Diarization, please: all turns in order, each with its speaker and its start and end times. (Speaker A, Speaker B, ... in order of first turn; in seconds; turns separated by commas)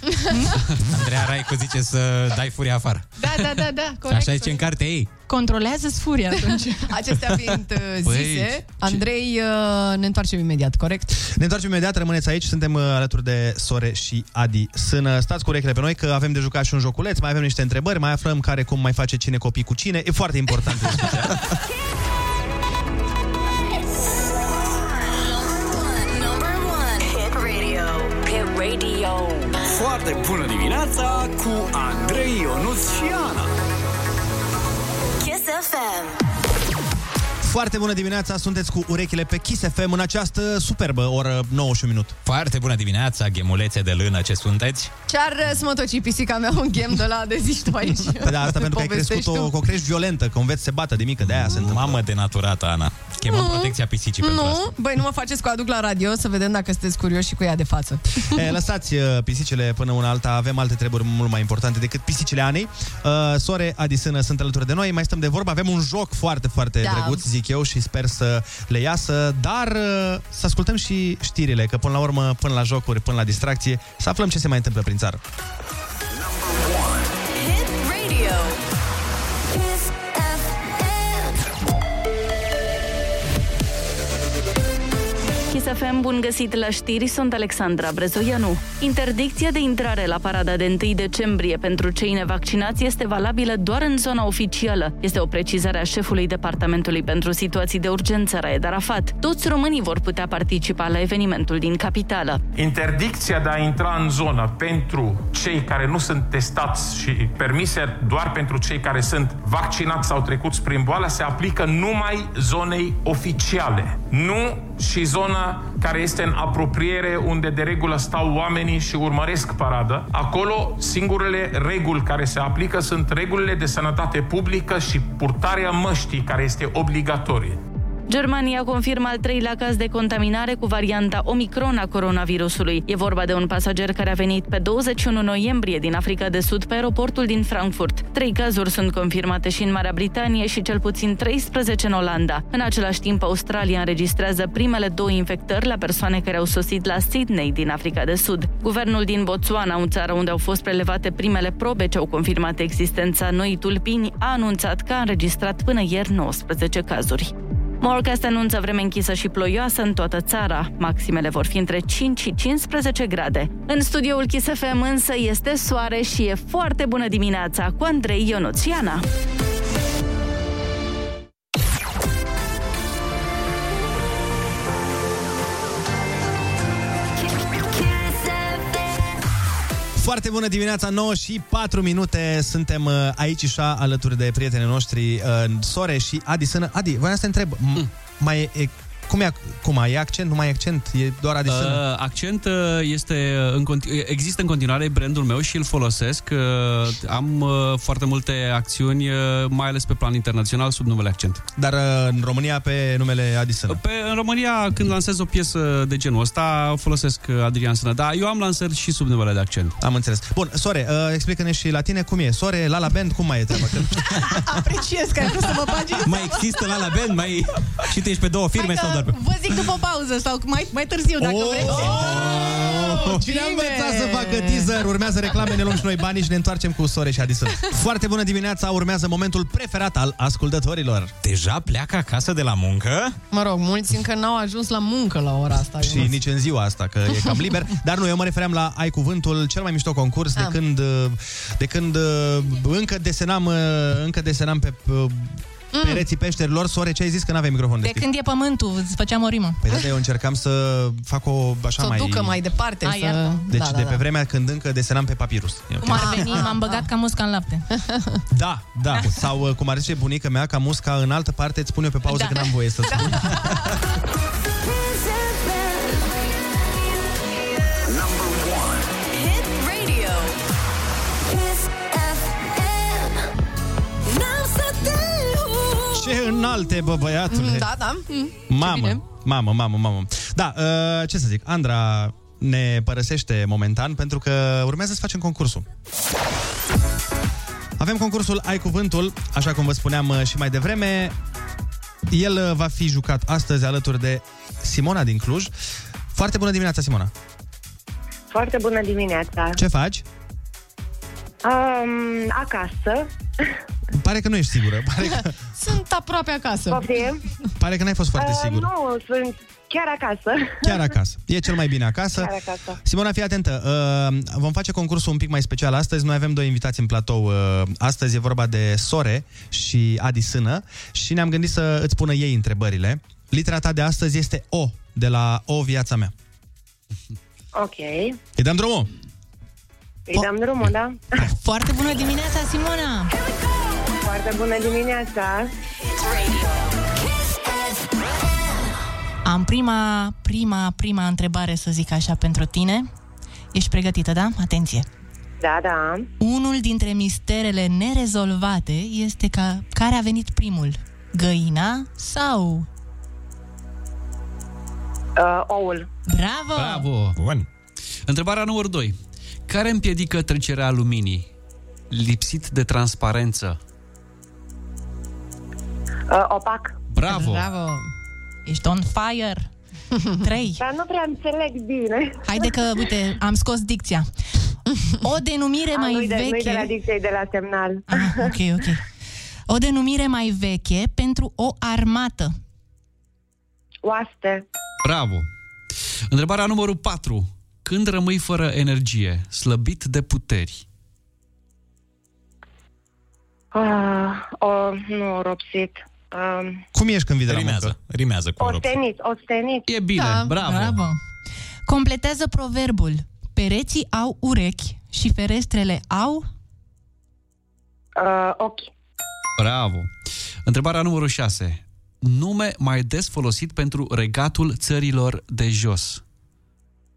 Speaker A: 0.3-0.7, Speaker B: 0.8-3.4, Speaker A: 3.2-4.7, Speaker B: 4.0-5.1, Speaker A: 5.3-6.9, Speaker C: 6.4-11.1, Speaker D: 8.0-9.0, Speaker E: 11.2-21.3, Speaker F: 24.6-29.7, Speaker G: 29.8-33.5, Speaker F: 35.2-36.2, Speaker E: 37.4-42.1, Speaker B: 42.2-44.9, Speaker C: 45.1-49.5, Speaker E: 48.2-52.0, Speaker B: 51.3-54.6, Speaker C: 53.3-58.5, Speaker E: 58.3-75.2, Speaker C: 66.8-67.2, Speaker F: 77.3-78.6, Speaker F: 79.5-81.3, Speaker H: 85.5-102.4, Speaker I: 102.5-127.6, Speaker H: 128.1-169.0, Speaker F: 177.2-179.2, Speaker E: 179.9-191.8, Speaker D: 191.4-201.4, Speaker E: 201.6-203.8, Speaker D: 203.7-209.8, Speaker E: 209.8-214.4, Speaker A: 214.2-216.6, Speaker B: 216.0-219.2, Speaker A: 218.5-224.2, Speaker E: 221.2-231.1, Speaker B: 221.8-223.1, Speaker C: 223.3-223.7, Speaker C: 224.3-224.7, Speaker B: 231.2-233.2, Speaker C: 233.3-236.1, Speaker E: 235.8-248.1, Speaker C: 245.7-246.0, Speaker A: 247.8-249.6, Speaker E: 249.6-252.4, Speaker C: 251.8-254.0, Speaker A: 252.8-253.4, Speaker E: 253.5-256.5, Speaker A: 255.8-257.6, Speaker C: 255.8-256.9, Speaker C: 257.7-258.2, Speaker E: 258.3-263.7, Speaker A: 258.9-259.3, Speaker A: 262.1-263.3, Speaker C: 262.9-263.5, Speaker F: 264.6-267.3, Speaker G: 267.9-268.9, Speaker F: 269.0-270.4, Speaker F: 271.2-273.2, Speaker F: 274.1-276.1, Speaker E: 275.9-277.7, Speaker C: 277.3-279.0, Speaker E: 278.5-285.6, Speaker E: 287.8-291.1, Speaker E: 292.1-295.5, Speaker E: 296.1-297.1, Speaker J: 298.3-299.6, Speaker E: 299.6-300.0, Speaker J: 301.4-303.5, Speaker E: 303.9-305.3, Speaker C: 305.6-306.9, Speaker J: 306.7-307.4, Speaker E: 307.6-308.7, Speaker J: 308.1-310.9, Speaker E: 310.6-312.3, Speaker J: 312.1-312.8, Speaker E: 312.8-326.1, Speaker J: 327.5-328.2, Speaker E: 328.4-328.9, Speaker J: 330.1-331.2, Speaker A: 331.3-333.1, Speaker F: 333.1-333.7, Speaker J: 334.0-335.5, Speaker F: 335.9-338.4, Speaker A: 339.2-342.9, Speaker A: 343.5-344.9, Speaker J: 345.4-346.1, Speaker A: 346.2-352.7, Speaker J: 355.2-355.9, Speaker A: 356.1-356.9, Speaker D: 356.6-357.2, Speaker B: 357.2-357.5, Speaker D: 358.1-361.3, Speaker D: 361.9-363.6, Speaker J: 366.1-366.7, Speaker D: 366.9-367.5, Speaker C: 367.1-367.9, Speaker A: 368.4-369.5, Speaker A: 370.2-370.6, Speaker J: 370.6-372.5, Speaker A: 372.3-374.1, Speaker A: 375.0-376.7, Speaker J: 375.7-378.3, Speaker A: 377.9-378.8, Speaker A: 379.5-382.3, Speaker J: 383.8-384.4, Speaker D: 384.8-385.3, Speaker D: 386.1-390.6, Speaker J: 393.5-396.6, Speaker E: 396.7-397.7, Speaker B: 397.3-398.8, Speaker J: 398.4-399.7, Speaker D: 399.7-400.9, Speaker C: 399.9-400.3, Speaker A: 400.3-401.0, Speaker A: 401.7-406.3, Speaker J: 408.0-408.7, Speaker D: 409.4-409.9, Speaker D: 410.5-416.0